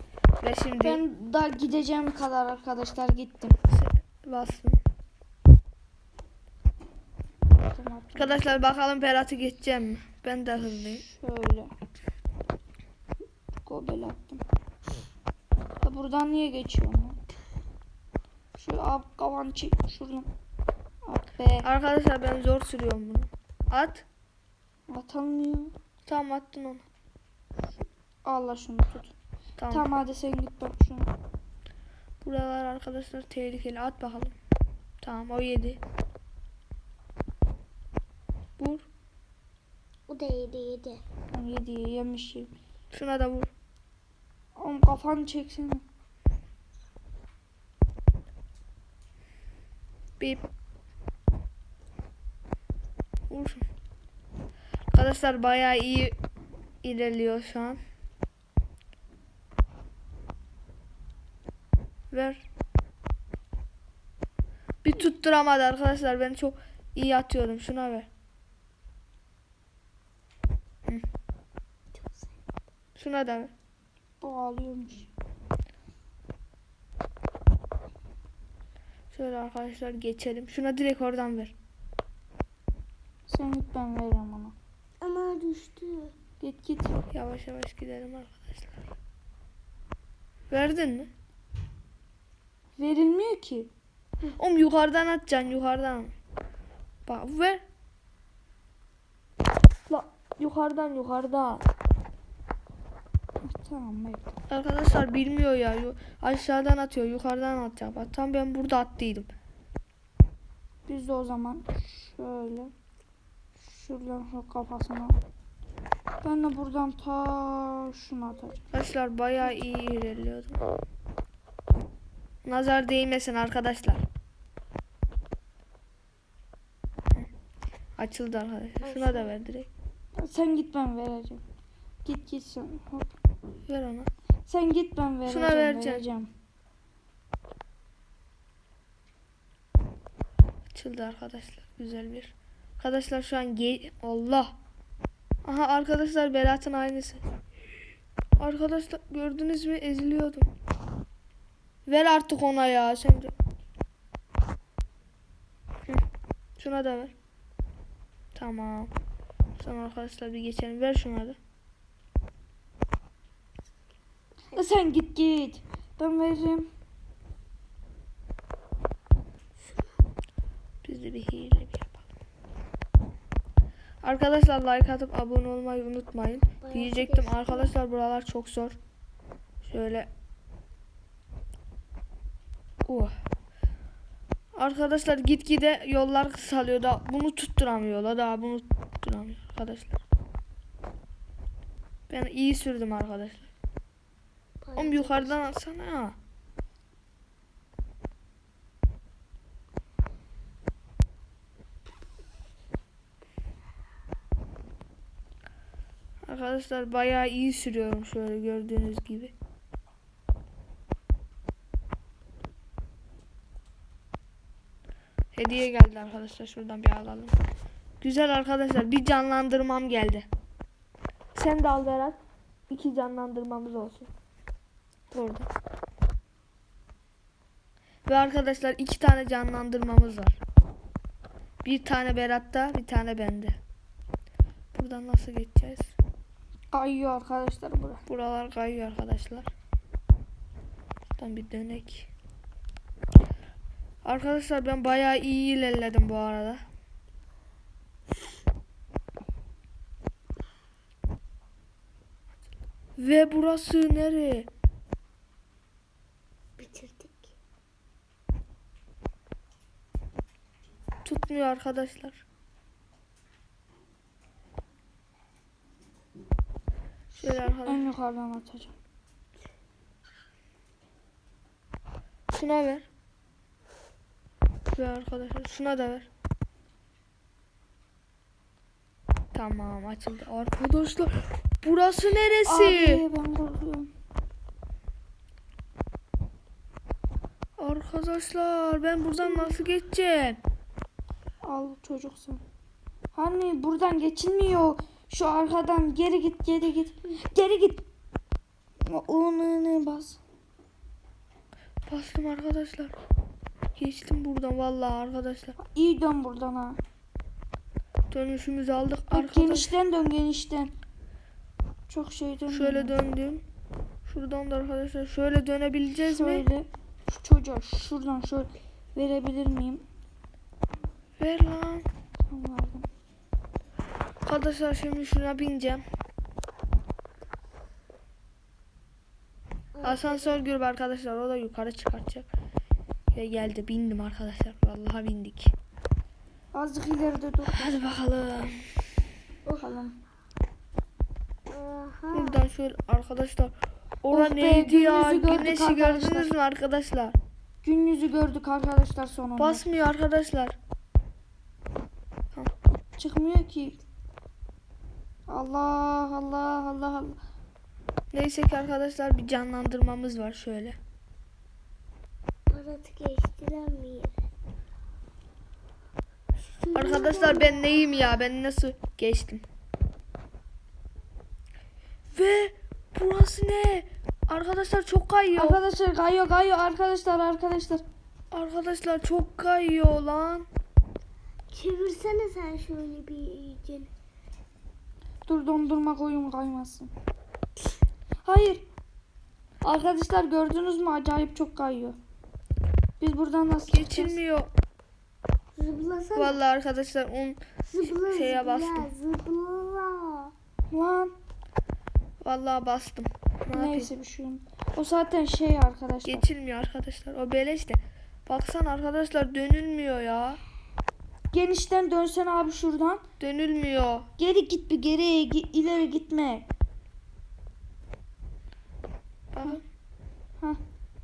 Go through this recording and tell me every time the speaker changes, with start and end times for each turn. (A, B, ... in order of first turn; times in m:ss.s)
0:00.4-0:01.0 A
0:00.8-0:03.6 B
0:03.7-0:04.8 A
0:07.7-0:08.4 B
0:08.2-0:11.0 A
0:10.9-0:11.7 B
0:13.6-0:14.4 B
0:15.8-0:17.2 B
0:18.6-0:20.3 B
0:21.0-0:21.6 B
0:21.6-0:24.0 A
0:24.9-0:25.7 B
0:26.1-0:26.8 A
0:28.2-0:29.1 B
0:29.6-0:29.9 A
0:29.7-0:31.1 B
0:32.2-0:34.4 A
0:35.0-0:35.8 A
0:38.6-0:38.9 A
0:40.1-0:41.0 C
0:41.3-0:42.5 B
0:42.9-0:43.5 A
0:44.6-0:45.8 B
0:53.3-0:53.6 A
0:54.9-0:56.2 A
0:56.8-0:57.8 A
1:02.1-1:02.4 A
1:04.8-1:08.1 A
1:12.0-1:12.3 C
1:12.9-1:13.5 A
1:14.2-1:15.1 B
1:19.1-1:21.5 A
1:23.3-1:24.5 B
1:25.0-1:26.1 C
1:26.4-1:27.0 B
1:27.1-1:28.7 A
1:30.5-1:31.1 A
1:32.8-1:33.7 B
1:34.2-1:36.1 A
1:37.0-1:37.6 A
1:39.9-1:41.6 A
1:43.4-1:44.3 B
1:44.5-1:49.3 A
1:50.8-1:52.7 B
1:53.6-1:55.2 B
1:56.2-1:58.6 B
1:58.7-2:00.6 A
2:02.4-2:04.0 A
2:08.0-2:09.7 A
2:08.9-2:09.2 C
2:10.2-2:11.4 B
2:12.0-2:13.1 B
2:13.6-2:14.1 A
2:14.4-2:16.3 B
2:15.2-2:16.0 A
2:20.7-2:24.5 A
2:25.4-2:27.2 A
2:28.4-2:30.5 A
2:31.8-2:33.3 A
2:36.6-2:37.1 A
2:38.3-2:38.9 A
2:39.6-2:41.4 A
2:44.5-2:46.7 B
2:50.8-2:52.1 A
2:54.0-2:58.8 A
2:56.5-2:57.7 C
2:59.6-3:00.1 A
3:02.8-3:03.1 A
3:04.5-3:10.0 A
3:12.1-3:13.5 A
3:14.6-3:15.5 C
3:14.8-3:16.2 A
3:26.2-3:29.3 A
3:35.3-3:37.4 A
3:38.0-3:40.3 A
3:41.3-3:42.2 A
3:42.7-3:44.1 A
3:45.1-3:45.5 A
3:48.0-3:50.4 A
3:51.6-3:53.6 A
3:54.7-3:55.9 A
3:56.7-3:58.0 B
3:58.1-3:59.5 A
4:01.2-4:02.1 A
4:04.0-4:06.6 A
4:13.0-4:14.5 A
4:16.6-4:17.3 C
4:21.0-4:22.2 A
4:27.1-4:27.9 A
4:27.2-4:28.7 B
4:32.3-4:32.8 A
4:34.7-4:36.1 A
4:39.3-4:43.0 A
4:42.4-4:43.9 B
4:47.6-4:50.4 A
4:51.4-4:52.4 B
4:53.1-4:57.8 B
4:58.8-5:00.2 B
5:01.9-5:03.0 A
5:03.8-5:05.6 A
5:05.6-5:06.8 B
5:08.1-5:09.7 A
5:09.1-5:10.7 B
5:11.9-5:13.0 B
5:12.5-5:13.4 A
5:14.0-5:16.4 A
5:16.0-5:19.8 B
5:21.2-5:21.9 A
5:22.3-5:22.9 B
5:24.2-5:25.8 A
5:29.7-5:30.4 C
5:29.8-5:32.3 A
5:33.1-5:35.5 A
5:36.5-5:37.8 B
5:37.4-5:38.6 A
5:39.6-5:40.0 B
5:41.5-5:42.4 C
5:42.1-5:47.2 A
5:44.1-5:46.3 B
5:47.6-5:49.6 B
5:49.4-5:50.6 A
5:53.0-5:53.8 B
5:55.3-5:57.2 B
5:58.1-6:00.8 A
6:02.5-6:04.1 C
6:06.4-6:07.7 C
6:06.7-6:09.4 A
6:12.1-6:15.6 A
6:15.4-6:17.8 B
6:18.3-6:20.4 A
6:21.5-6:23.9 C
6:25.2-6:26.9 B
6:28.2-6:28.6 B
6:29.6-6:32.0 B
6:33.0-6:34.2 B
6:33.7-6:34.5 A
6:35.6-6:36.4 C
6:36.1-6:38.9 A
6:37.7-6:40.3 C
6:40.7-6:41.1 B
6:42.2-6:43.9 A
6:43.5-6:46.2 B
6:46.0-6:50.4 A
6:51.3-6:53.0 B
6:53.2-6:54.1 A
6:54.2-6:56.4 B
6:59.3-6:59.6 A